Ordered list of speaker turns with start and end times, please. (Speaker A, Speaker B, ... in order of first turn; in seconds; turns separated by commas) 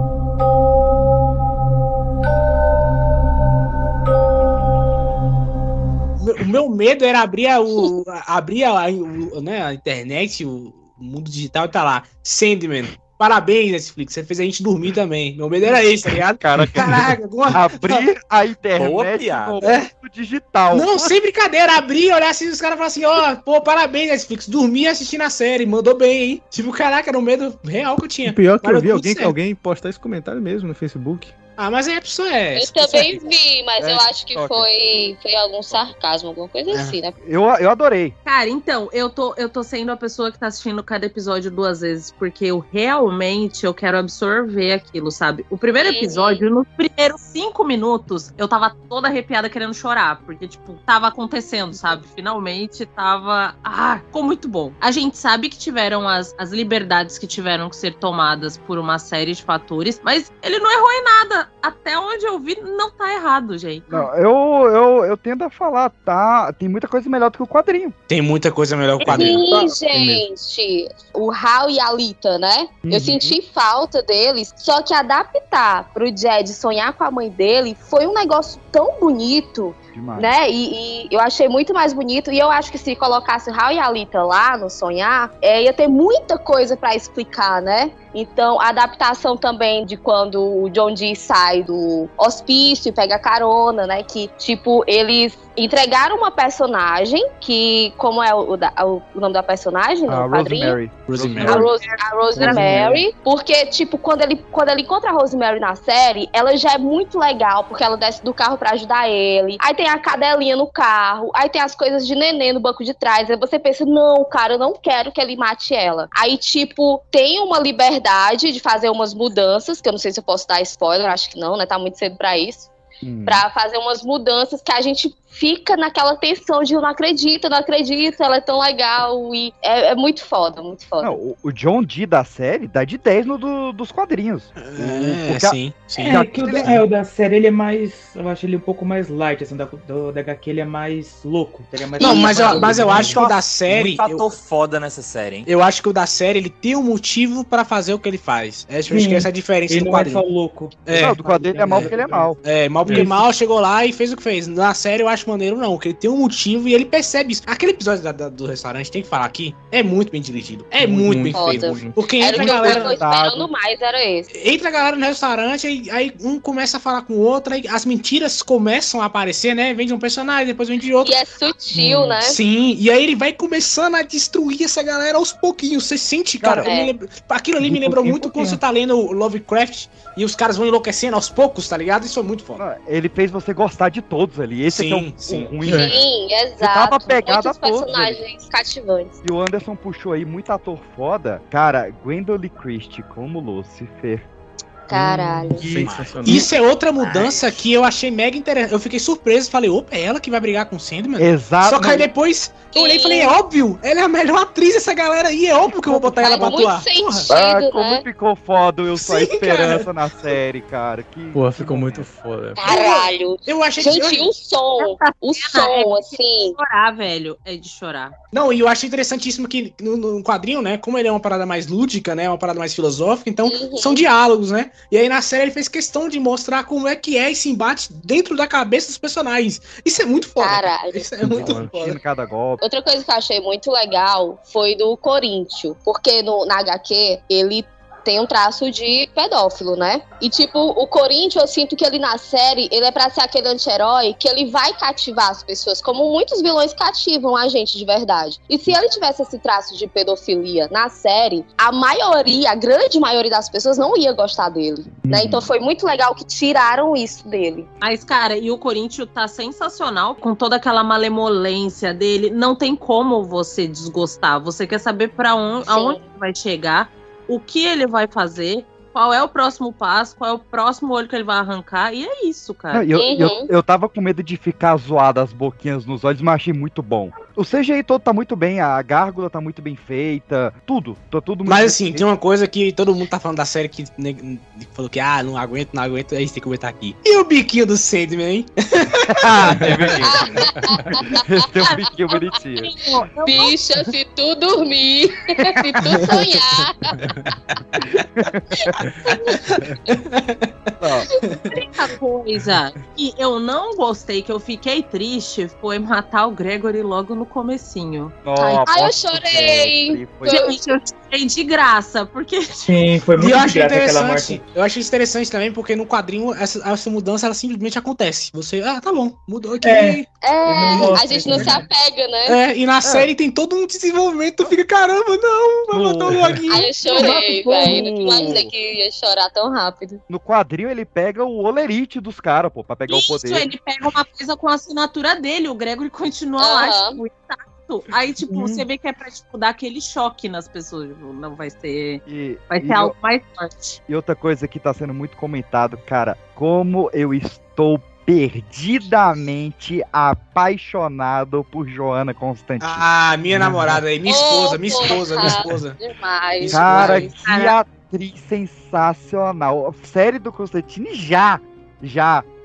Speaker A: 6.2-18.1, Speaker B: 16.4-21.1, Speaker C: 18.8-19.6, Speaker A: 19.6-19.9, Speaker A: 20.7-29.3, Speaker D: 28.2-31.4, Speaker A: 31.6-33.2, Speaker E: 32.5-37.1, Speaker B: 33.8-34.7, Speaker A: 36.7-37.0, Speaker B: 37.2-38.1, Speaker F: 38.2-63.9, Speaker E: 45.8-46.4, Speaker B: 63.9-67.9, Speaker A: 68.1-69.6, Speaker E: 69.0-100.8, Speaker B: 69.5-70.2, Speaker B: 79.9-80.3, Speaker B: 100.1-101.7, Speaker A: 101.0-101.8, Speaker E: 101.4-122.7, Speaker G: 102.4-103.0, Speaker B: 102.4-102.8, Speaker B: 123.0-123.4, Speaker E: 123.2-131.1, Speaker B: 131.0-136.8, Speaker A: 134.6-136.8, Speaker G: 136.0-143.3, Speaker E: 142.0-142.7, Speaker A: 142.0-144.3, Speaker B: 142.6-143.3, Speaker C: 143.7-145.5, Speaker A: 145.4-150.2, Speaker G: 148.9-152.3, Speaker A: 150.8-151.2, Speaker B: 150.9-152.4, Speaker A: 152.4-163.1, Speaker D: 152.8-153.1, Speaker G: 152.9-153.2, Speaker D: 160.8-162.1, Speaker E: 161.3-164.3, Speaker B: 162.3-163.5, Speaker A: 164.3-171.2, Speaker E: 171.0-172.4, Speaker A: 171.7-182.6, Speaker B: 176.4-176.7, Speaker E: 176.6-176.9, Speaker G: 177.6-178.6, Speaker B: 182.6-186.0, Speaker A: 184.7-185.9, Speaker E: 185.7-189.1, Speaker B: 186.6-188.2, Speaker B: 189.2-194.3, Speaker E: 194.9-195.7, Speaker B: 194.9-196.4, Speaker D: 195.6-196.5, Speaker A: 195.6-207.3, Speaker C: 196.9-197.6, Speaker B: 201.2-202.1, Speaker E: 202.7-203.4, Speaker G: 205.9-206.2, Speaker E: 206.2-208.0, Speaker B: 207.3-212.1, Speaker A: 209.0-209.9, Speaker D: 211.3-212.7, Speaker E: 212.6-216.6, Speaker A: 212.7-214.3, Speaker F: 214.8-218.1, Speaker A: 218.3-232.0, Speaker E: 223.4-224.0, Speaker E: 230.4-231.0, Speaker D: 231.3-231.7, Speaker B: 231.3-232.6, Speaker E: 232.6-257.7, Speaker F: 257.8-272.9, Speaker E: 265.6-266.0, Speaker B: 272.7-282.1, Speaker E: 272.9-273.5, Speaker A: 281.4-290.1, Speaker B: 289.1-290.3, Speaker E: 290.1-291.2, Speaker B: 291.1-292.7, Speaker F: 292.3-293.5, Speaker E: 293.3-296.9, Speaker B: 298.2-298.7, Speaker A: 299.3-301.6, Speaker B: 300.8-301.1, Speaker E: 301.5-301.9, Speaker F: 301.8-308.1, Speaker B: 308.2-310.4, Speaker E: 308.4-310.7, Speaker F: 310.3-312.7, Speaker G: 312.6-314.4, Speaker A: 313.1-320.1, Speaker G: 319.6-321.6, Speaker E: 320.2-322.4, Speaker A: 320.7-321.5, Speaker A: 322.3-326.9, Speaker B: 322.8-323.1, Speaker B: 325.7-326.4, Speaker E: 326.5-330.0, Speaker G: 326.9-327.9, Speaker B: 327.6-328.5, Speaker B: 330.1-333.5, Speaker F: 332.9-343.8, Speaker E: 336.4-337.0, Speaker B: 342.1-342.9, Speaker B: 343.9-352.8, Speaker A: 352.6-355.8, Speaker E: 354.0-357.5, Speaker A: 356.4-357.1, Speaker B: 356.5-362.2